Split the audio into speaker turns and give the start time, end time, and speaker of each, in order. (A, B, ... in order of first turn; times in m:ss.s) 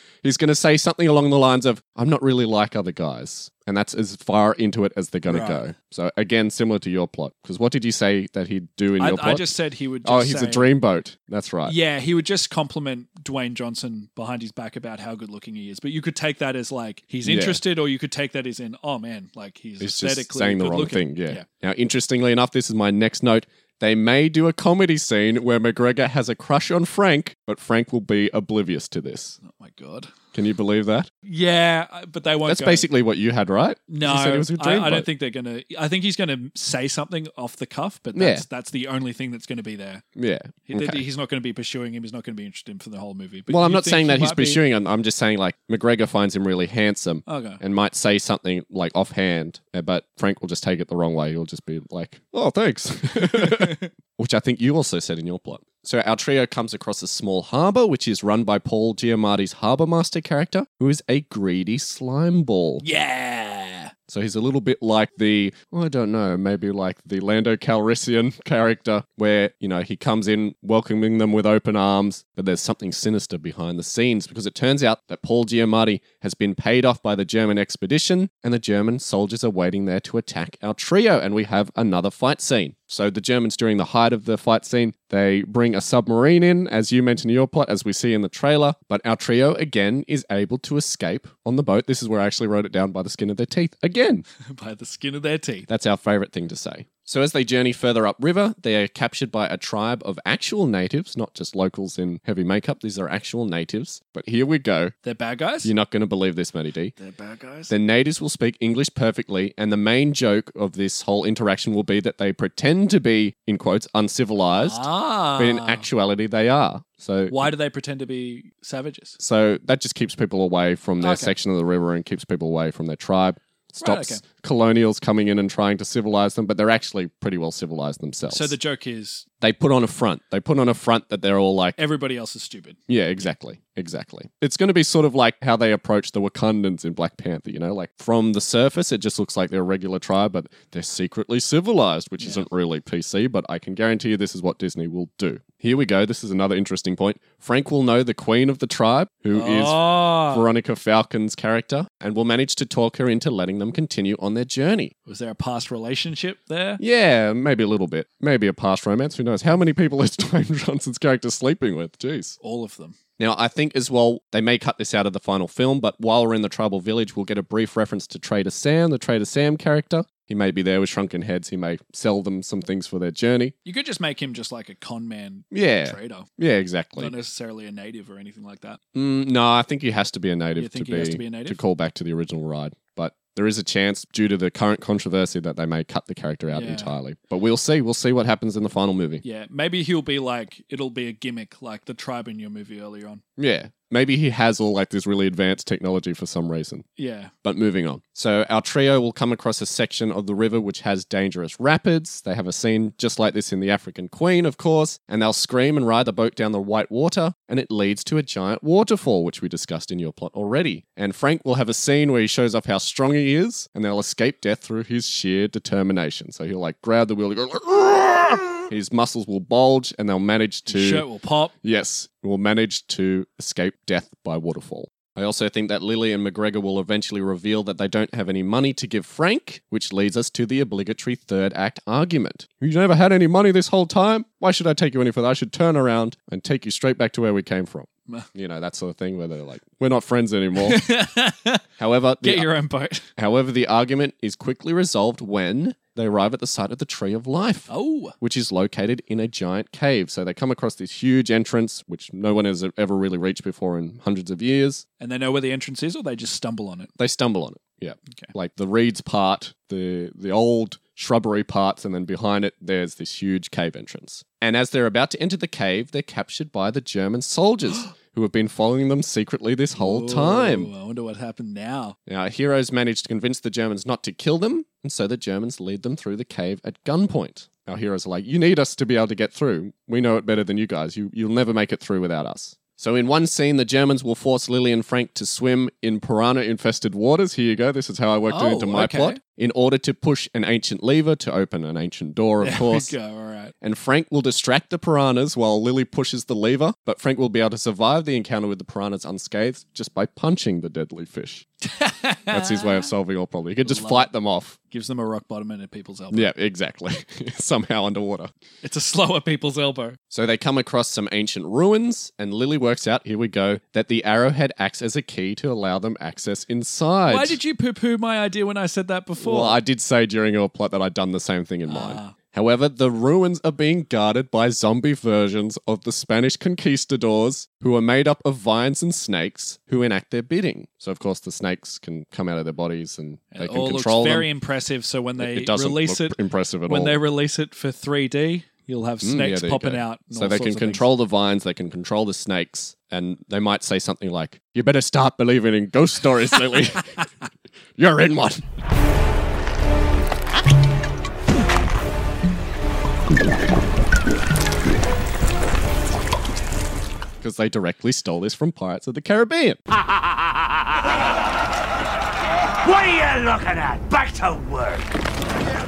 0:00.2-0:09.5 A
0:05.3-0:05.6 B
0:09.0-0:10.7 B
0:10.0-0:11.7 A
0:11.6-0:21.4 B
0:17.2-0:17.6 A
0:19.8-0:29.4 A
0:29.4-0:30.1 B
0:30.3-0:31.1 A
0:31.2-0:32.9 B
0:32.4-0:35.1 A
0:33.9-0:40.0 B
0:38.1-0:38.4 A
0:40.2-0:41.0 A
0:40.7-0:44.6 B
0:43.5-1:02.8 A
0:47.3-0:47.6 B
0:53.2-0:53.9 B
1:02.8-1:03.9 B
1:04.1-1:34.2 A
1:34.4-1:35.7 B
1:35.7-1:44.9 A
1:45.0-1:45.7 B
1:45.6-1:46.9 A
1:47.0-1:47.7 B
1:47.7-1:57.5 A
1:54.6-1:55.8 B
1:57.3-1:59.2 B
1:59.2-2:08.5 A
2:01.0-2:01.3 B
2:03.8-2:04.2 B
2:08.3-2:09.2 B
2:09.4-2:11.8 A
2:11.8-2:12.8 B
2:12.9-2:34.9 A
2:22.2-2:22.5 B
2:29.3-2:30.5 B
2:35.0-2:36.8 B
2:36.8-2:42.4 A
2:42.4-2:43.0 B
2:43.2-2:53.5 A
2:53.6-2:56.3 B
2:55.5-2:57.1 A
2:57.0-2:58.8 B
2:58.9-3:09.2 A
3:00.6-3:01.6 B
3:06.5-3:06.9 B
3:09.2-3:13.2 B
3:13.4-3:16.8 A
3:17.0-3:17.3 B
3:17.4-3:41.1 A
3:40.7-3:41.5 B
3:41.6-4:00.8 A
4:00.6-4:01.6 B
4:01.8-4:02.5 A
4:02.2-4:03.1 B
4:03.2-4:14.8 A
4:07.7-4:08.1 B
4:15.0-4:16.9 B
4:17.0-4:30.7 A
4:29.8-4:32.0 B
4:32.1-4:52.9 A
4:48.3-4:49.2 B
4:52.4-4:53.5 B
4:53.6-5:01.4 A
5:01.6-5:02.9 B
5:02.3-5:04.6 A
5:03.6-5:04.1 B
5:04.7-5:06.3 B
5:06.1-5:08.3 A
5:08.6-5:10.0 B
5:10.1-5:17.4 A
5:17.1-5:19.6 B
5:19.2-5:34.3 A
5:21.7-5:22.1 B
5:33.3-5:40.8 B
5:35.2-5:37.0 A
5:39.0-5:46.9 A
5:47.8-5:48.4 A
5:57.2-5:59.6 A
6:02.6-6:04.9 C